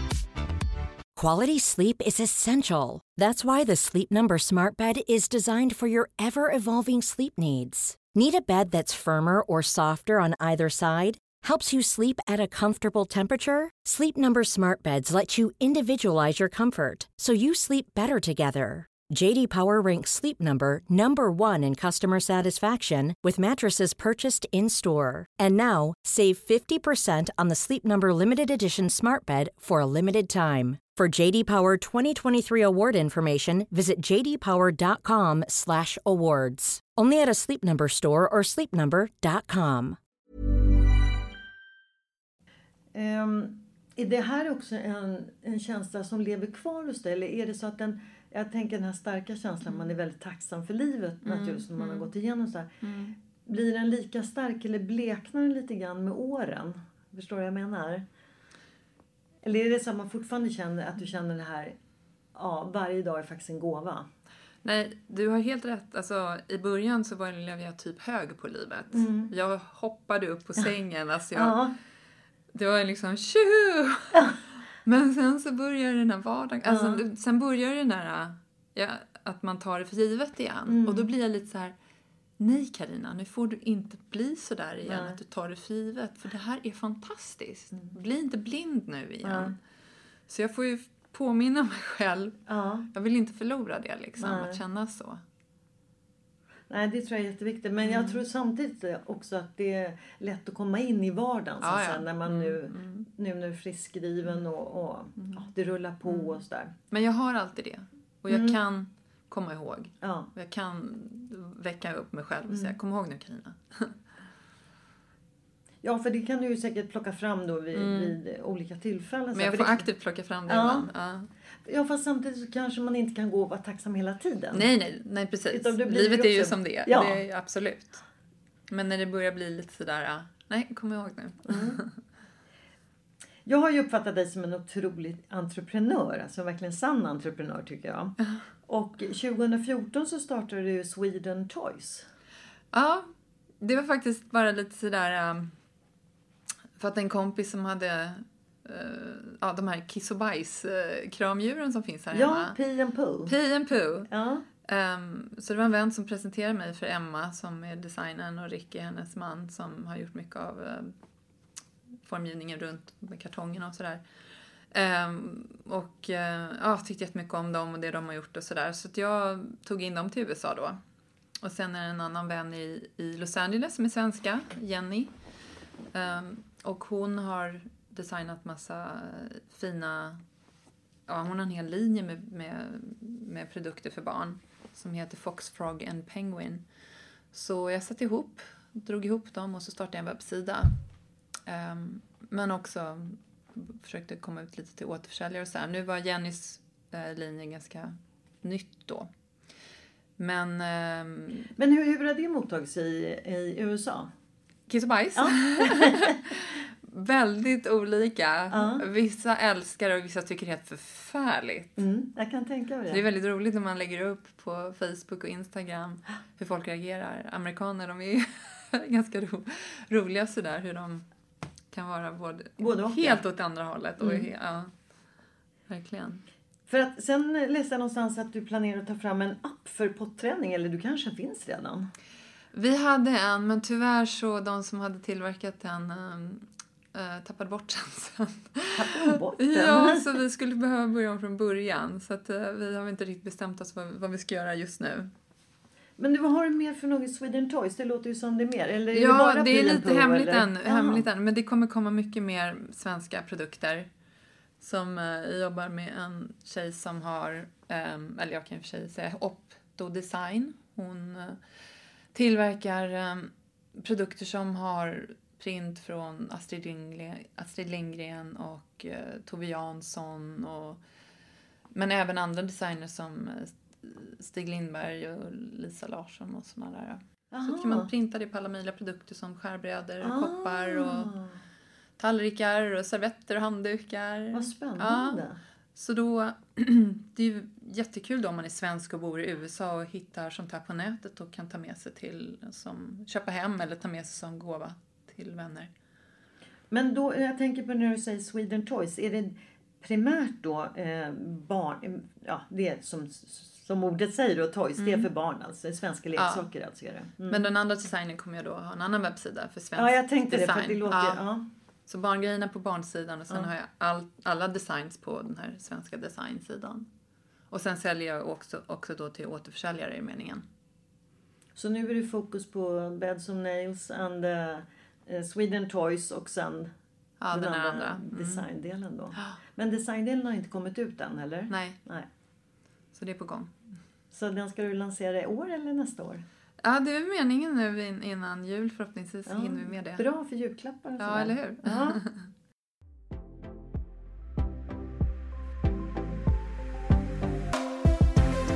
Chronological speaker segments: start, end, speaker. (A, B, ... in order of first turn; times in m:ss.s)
0:01.2-0:40.0 A
0:42.9-0:58.0 B
0:51.2-0:52.1 C
0:52.8-0:53.1 C
0:59.4-1:01.7 B
1:02.3-1:04.1 B
1:04.6-1:11.6 C
1:08.9-1:09.3 B
1:11.3-1:11.7 B
1:12.5-1:14.2 C
1:14.1-1:14.4 B
1:14.8-1:21.7 C
1:16.6-1:17.0 B
1:20.7-1:21.1 B
1:22.4-1:29.6 C
1:24.8-1:25.2 B
1:29.2-1:29.6 B
1:30.3-1:32.4 C
1:32.5-1:32.9 B
1:32.9-1:35.2 C
1:34.2-1:34.6 B
1:36.7-1:46.7 B
1:37.8-1:38.2 C
1:41.6-1:43.1 C
1:45.2-1:45.5 C
1:46.0-1:54.0 C
1:48.3-1:48.6 B
1:50.0-1:50.3 B
1:52.5-1:52.7 B
1:55.8-1:59.9 B
1:57.7-1:58.2 C
1:59.3-2:01.3 C
2:00.5-2:00.9 B
2:01.6-2:04.7 B
2:04.5-2:08.0 C
2:05.5-2:07.2 B
2:08.7-2:12.0 C
2:11.5-2:11.8 B
2:13.4-2:18.1 B
2:18.7-2:22.1 B
2:22.7-2:23.1 C
2:23.6-2:25.5 C
2:26.8-2:32.6 C
2:32.1-2:33.3 B
2:33.2-2:34.1 C
2:34.1-2:34.4 B
2:34.6-2:40.9 C
2:42.0-2:44.0 C
2:44.7-2:50.8 C
2:51.4-2:55.1 C
2:55.9-3:00.2 C
3:01.1-3:06.6 C
3:07.3-3:10.8 C
3:11.4-3:19.1 C
3:20.2-3:21.5 C
3:21.6-3:24.1 B
3:24.7-3:31.8 C
3:25.2-3:26.2 B
3:28.5-3:28.8 B
3:31.8-3:33.0 B
3:32.9-3:41.0 C
3:41.7-3:44.7 C
3:42.6-3:43.2 B
3:44.0-3:44.3 B
3:45.7-3:46.2 C
3:46.7-3:51.9 B
3:52.5-4:05.1 C
3:58.7-4:00.2 B
4:06.0-4:11.0 B
4:08.9-4:13.9 C
4:14.6-4:21.4 C
4:22.1-4:30.8 C
4:31.7-4:41.1 C
4:37.3-4:37.9 B
4:40.0-4:41.4 B
4:42.0-4:45.2 C
4:44.3-4:45.4 B
4:45.7-4:55.7 C
4:56.7-5:07.4 B
5:04.8-5:05.1 C
5:06.2-5:06.5 C
5:07.3-5:11.2 C
5:09.8-5:11.4 B
5:11.9-5:16.9 C
5:17.5-5:20.4 C
5:21.5-5:26.7 B
5:27.2-5:28.5 C
5:27.3-5:32.1 B
5:31.5-5:31.8 C
5:32.9-5:33.5 C
5:34.1-5:36.2 B
5:36.6-5:40.0 C
5:39.2-5:42.0 B
5:41.0-5:42.3 C